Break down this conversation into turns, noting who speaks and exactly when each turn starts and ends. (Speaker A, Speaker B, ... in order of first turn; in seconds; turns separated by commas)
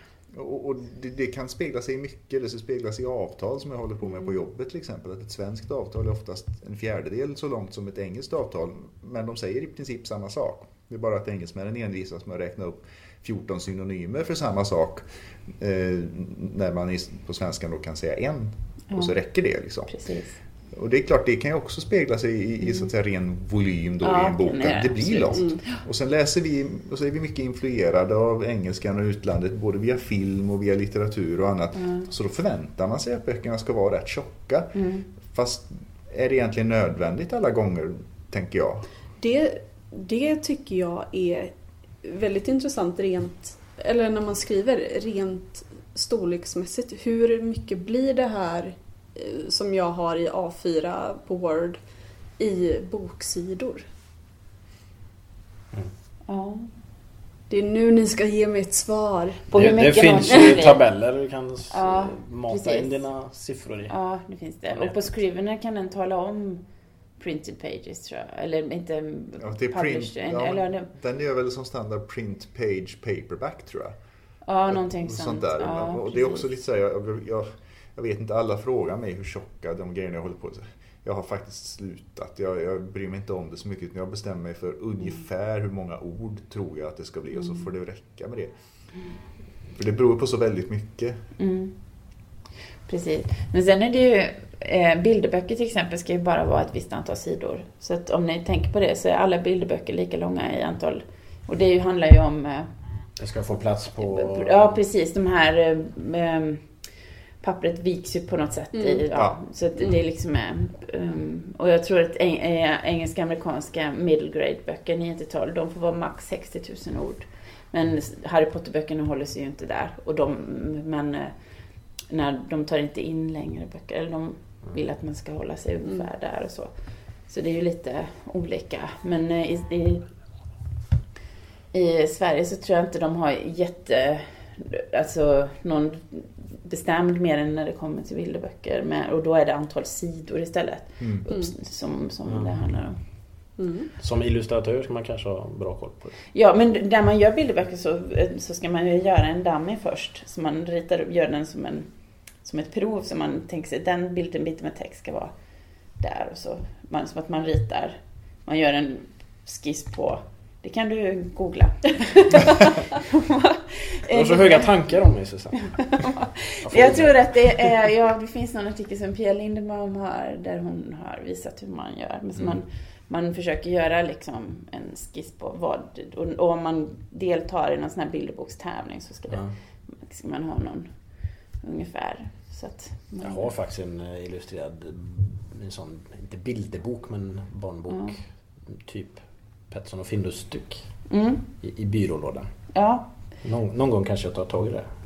Speaker A: 0.3-20.0, Speaker B: 19.9-20.4, Speaker A: 20.7-38.9, Speaker B: 24.0-25.8, Speaker C: 25.3-25.6, Speaker B: 31.8-32.1, Speaker B: 34.7-35.0, Speaker C: 39.2-51.8, Speaker C: 52.4-53.9, Speaker B: 56.2-56.7, Speaker C: 57.5-59.5, Speaker B: 59.5-60.8, Speaker D: 59.5-63.9, Speaker B: 61.7-63.0, Speaker B: 63.9-66.6, Speaker D: 64.7-65.0, Speaker B: 67.2-70.9, Speaker A: 69.4-74.0, Speaker B: 74.4-76.5, Speaker A: 74.7-88.5, Speaker A: 89.7-91.2, Speaker B: 91.4-92.2, Speaker B: 92.8-102.7, Speaker D: 103.2-104.8, Speaker B: 104.0-106.8, Speaker B: 107.4-130.1, Speaker C: 108.7-109.0, Speaker B: 131.7-143.0, Speaker D: 142.2-142.6, Speaker C: 143.6-143.9, Speaker D: 144.0-146.2, Speaker B: 146.3-164.9, Speaker D: 164.1-167.7, Speaker B: 165.8-183.5, Speaker D: 179.3-179.5, Speaker D: 183.2-192.5, Speaker B: 187.9-188.2, Speaker B: 191.1-191.5, Speaker B: 192.7-193.1, Speaker D: 193.4-194.9